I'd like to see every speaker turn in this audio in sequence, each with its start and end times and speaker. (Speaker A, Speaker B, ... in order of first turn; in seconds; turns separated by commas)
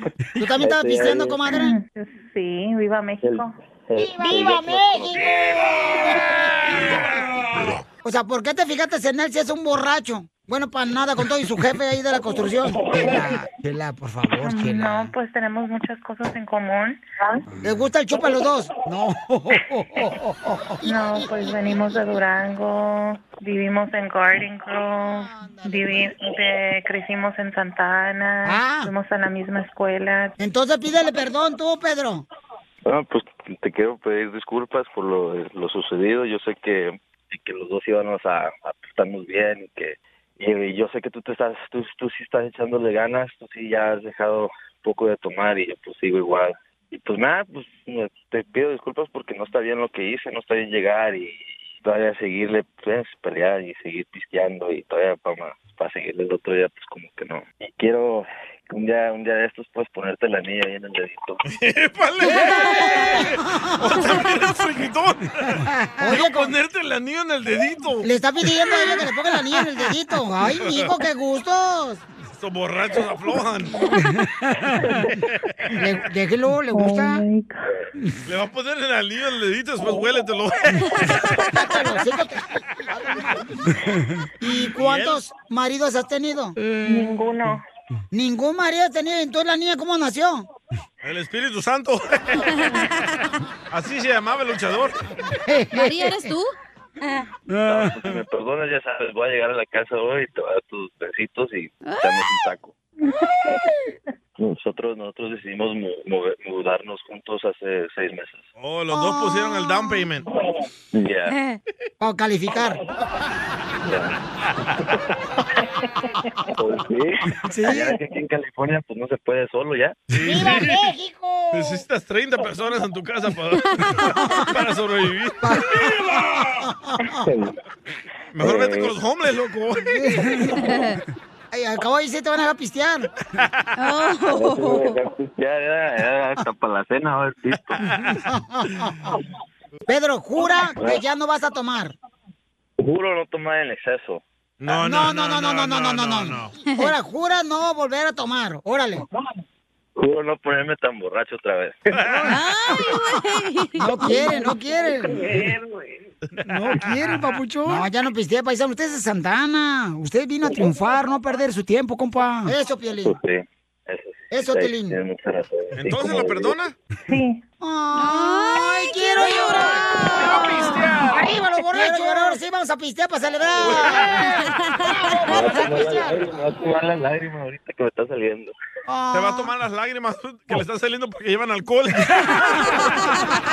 Speaker A: 0.4-1.7, Speaker B: 0.6-1.4, Speaker C: 1.5-3.5, Speaker B: 3.2-6.1, Speaker A: 4.0-6.2, Speaker A: 8.0-15.1, Speaker C: 14.4-17.0, Speaker A: 17.6-20.7, Speaker C: 20.8-30.4, Speaker A: 25.0-26.1, Speaker A: 28.4-28.9, Speaker A: 30.4-32.2, Speaker B: 32.9-61.4, Speaker D: 61.5-68.1, Speaker A: 62.2-64.0, Speaker A: 65.8-66.5, Speaker A: 68.0-72.0, Speaker D: 70.5-70.9, Speaker D: 72.4-73.8, Speaker A: 75.7-77.2, Speaker C: 76.7-77.7, Speaker D: 78.2-81.4, Speaker A: 81.4-82.4, Speaker A: 84.4-86.5, Speaker D: 84.7-85.3, Speaker C: 86.8-87.6, Speaker A: 88.1-90.5, Speaker D: 91.0-92.5, Speaker E: 92.6-92.9, Speaker D: 93.7-95.0, Speaker A: 95.5-96.3, Speaker E: 95.7-96.5, Speaker A: 97.5-97.8, Speaker B: 97.6-102.7, Speaker E: 101.8-102.3, Speaker B: 104.4-108.5, Speaker D: 108.6-110.3, Speaker A: 108.9-109.8, Speaker B: 110.9-111.3, Speaker E: 111.3-111.6, Speaker A: 112.0-112.8, Speaker B: 113.8-114.2, Speaker B: 116.5-120.0, Speaker A: 117.4-118.0, Speaker D: 120.1-120.9, Speaker A: 120.2-121.8, Speaker D: 121.5-126.2, Speaker E: 123.7-124.5, Speaker A: 125.4-127.2, Speaker B: 127.1-127.5, Speaker D: 128.3-130.3, Speaker B: 128.4-128.9, Speaker A: 129.9-130.6, Speaker E: 130.6-130.9, Speaker A: 131.5-133.1, Speaker E: 133.8-135.0, Speaker B: 134.3-137.9, Speaker A: 138.2-139.1, Speaker A: 139.9-141.9, Speaker B: 140.7-141.0, Speaker B: 142.8-144.2, Speaker D: 144.6-146.5, Speaker A: 144.7-149.0, Speaker B: 150.0-152.1, Speaker D: 151.9-152.2, Speaker A: 152.1-152.4, Speaker E: 152.3-154.5, Speaker A: 153.8-155.4, Speaker B: 154.2-156.0, Speaker A: 156.4-163.2, Speaker B: 162.9-166.6, Speaker A: 164.3-165.0, Speaker D: 165.8-166.7, Speaker C: 167.1-167.4, Speaker A: 167.6-170.6, Speaker E: 167.9-170.8, Speaker D: 170.1-171.3, Speaker A: 171.1-174.2, Speaker B: 173.6-173.8, Speaker D: 173.6-174.0, Speaker E: 174.6-175.5, Speaker A: 174.8-176.2, Speaker B: 175.2-178.5, Speaker A: 178.9-179.5, Speaker D: 179.1-182.2